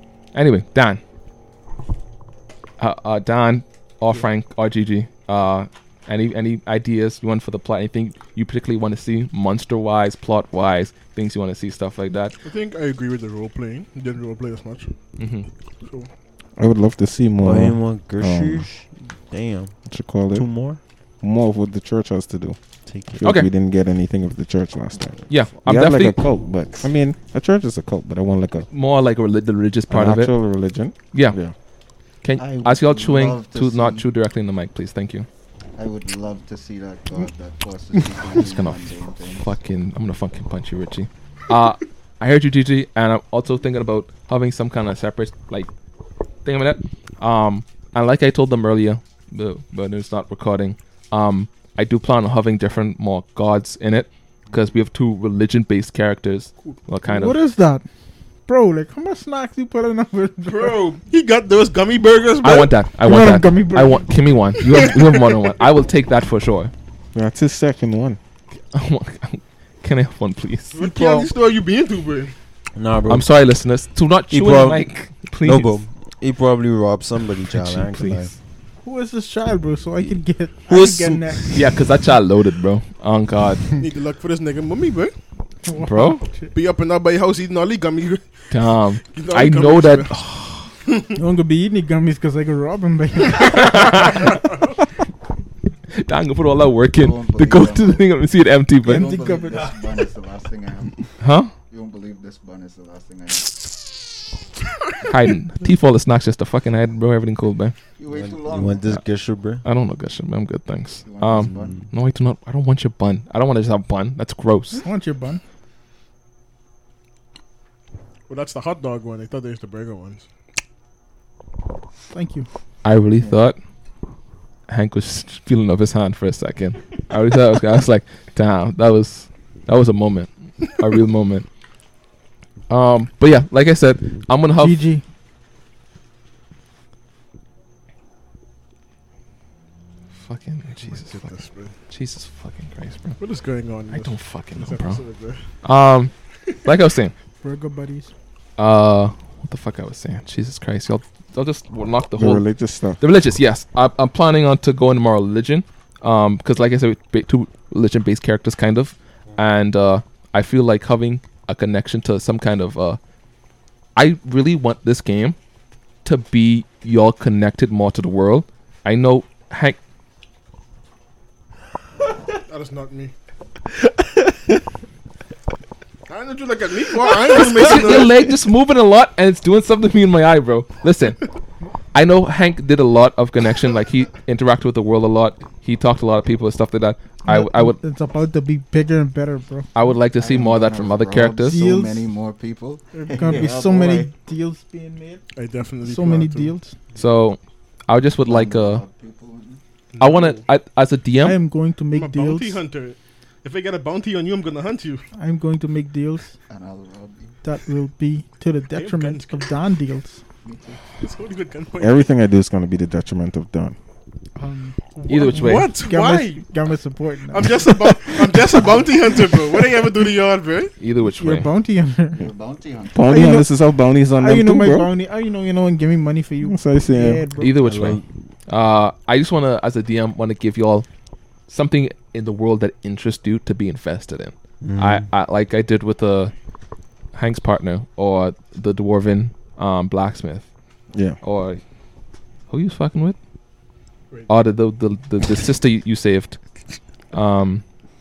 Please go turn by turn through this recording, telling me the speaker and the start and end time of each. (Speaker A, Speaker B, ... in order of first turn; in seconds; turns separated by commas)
Speaker A: 0.3-1.0, Speaker A: 2.8-12.4, Speaker B: 12.4-14.9, Speaker A: 15.2-15.5, Speaker B: 15.8-16.1, Speaker C: 16.6-18.7, Speaker D: 17.4-20.8, Speaker C: 19.9-20.5, Speaker C: 21.2-28.7, Speaker D: 22.9-23.3, Speaker A: 23.2-23.5, Speaker A: 25.3-26.2, Speaker A: 28.7-30.3, Speaker C: 29.9-31.5, Speaker A: 31.1-31.4, Speaker A: 32.2-35.3, Speaker E: 32.4-34.0, Speaker E: 35.8-39.5, Speaker A: 38.4-45.7, Speaker A: 46.4-57.4, Speaker F: 57.0-57.8, Speaker F: 58.5-60.9, Speaker B: 60.5-62.8, Speaker A: 62.4-66.7, Speaker F: 63.0-64.2, Speaker B: 64.7-65.2, Speaker C: 67.1-68.2, Speaker A: 68.7-70.8, Speaker B: 70.7-72.3, Speaker F: 70.7-71.3, Speaker D: 72.7-73.3, Speaker A: 73.1-75.8, Speaker D: 74.3-78.3, Speaker A: 77.5-78.3, Speaker F: 78.8-81.6, Speaker D: 80.0-81.5, Speaker A: 81.5-83.7, Speaker B: 83.8-85.1, Speaker F: 85.6-86.5, Speaker A: 85.8-86.2, Speaker B: 86.5-88.5, Speaker A: 88.5-90.7, Speaker B: 89.0-90.2, Speaker F: 91.2-94.4, Speaker A: 93.5-94.3, Speaker B: 94.0-94.5, Speaker A: 95.9-99.1, Speaker E: 97.0-98.1, Speaker E: 98.8-103.7, Speaker F: 98.9-99.8, Speaker A: 101.2-101.5, Speaker A: 105.0-107.8, Speaker E: 108.0-109.0, Speaker D: 108.1-109.6, Speaker A: 109.0-114.8, Speaker E: 111.0-111.7, Speaker D: 111.3-111.9, Speaker F: 114.7-115.4, Speaker B: 118.3-120.3, Speaker F: 122.1-122.5, Speaker A: 122.8-123.6, Speaker A: 124.7-131.5, Speaker A: 132.7-134.8, Speaker F: 134.6-135.0, Speaker A: 140.2-141.3, Speaker B: 140.8-141.7, Speaker A: 141.9-143.2, Speaker B: 143.2-145.5, Speaker A: 143.9-145.0, Speaker A: 145.6-147.1, Speaker F: 147.4-148.1, Speaker A: 148.6-152.5, Speaker C: 152.1-153.0, Speaker A: 153.0-163.0, Speaker A: 163.9-165.4, Speaker A: 166.0-169.8, Speaker B: 172.4-173.1, Speaker B: 176.1-178.2, Speaker A: 177.3-181.3, Speaker A: 181.9-187.8, Speaker F: 187.2-189.7, Speaker A: 189.7-191.6, Speaker E: 190.2-194.1, Speaker F: 191.4-192.0, Speaker F: 192.9-195.2, Speaker B: 195.3-196.5, Speaker F: 195.8-196.8, Speaker A: 196.9-198.8, Speaker E: 198.2-199.6, Speaker B: 199.9-200.4, Speaker A: 200.0-201.4, Speaker F: 201.2-202.6, Speaker B: 201.9-205.0, Speaker F: 205.1-206.4, Speaker E: 206.5-207.4, Speaker F: 207.4-210.2, Speaker B: 208.7-209.4, Speaker E: 210.4-210.8, Speaker B: 211.0-212.1, Speaker C: 211.8-213.8, Speaker F: 214.4-218.4, Speaker A: 215.1-215.7, Speaker B: 215.2-216.6, Speaker B: 217.3-220.7, Speaker A: 220.8-221.5, Speaker F: 221.1-222.3, Speaker E: 222.1-223.4, Speaker C: 222.9-224.9, Speaker F: 223.1-223.5, Speaker F: 224.2-227.6, Speaker C: 226.4-227.2, Speaker A: 227.4-230.9, Speaker D: 227.5-228.1, Speaker A: 231.5-236.3, Speaker D: 234.6-235.1, Speaker A: 237.1-240.5, Speaker C: 240.9-241.2, Speaker A: 241.2-241.6, Speaker A: 242.5-243.2, Speaker A: 244.3-246.4, Speaker A: 247.1-247.6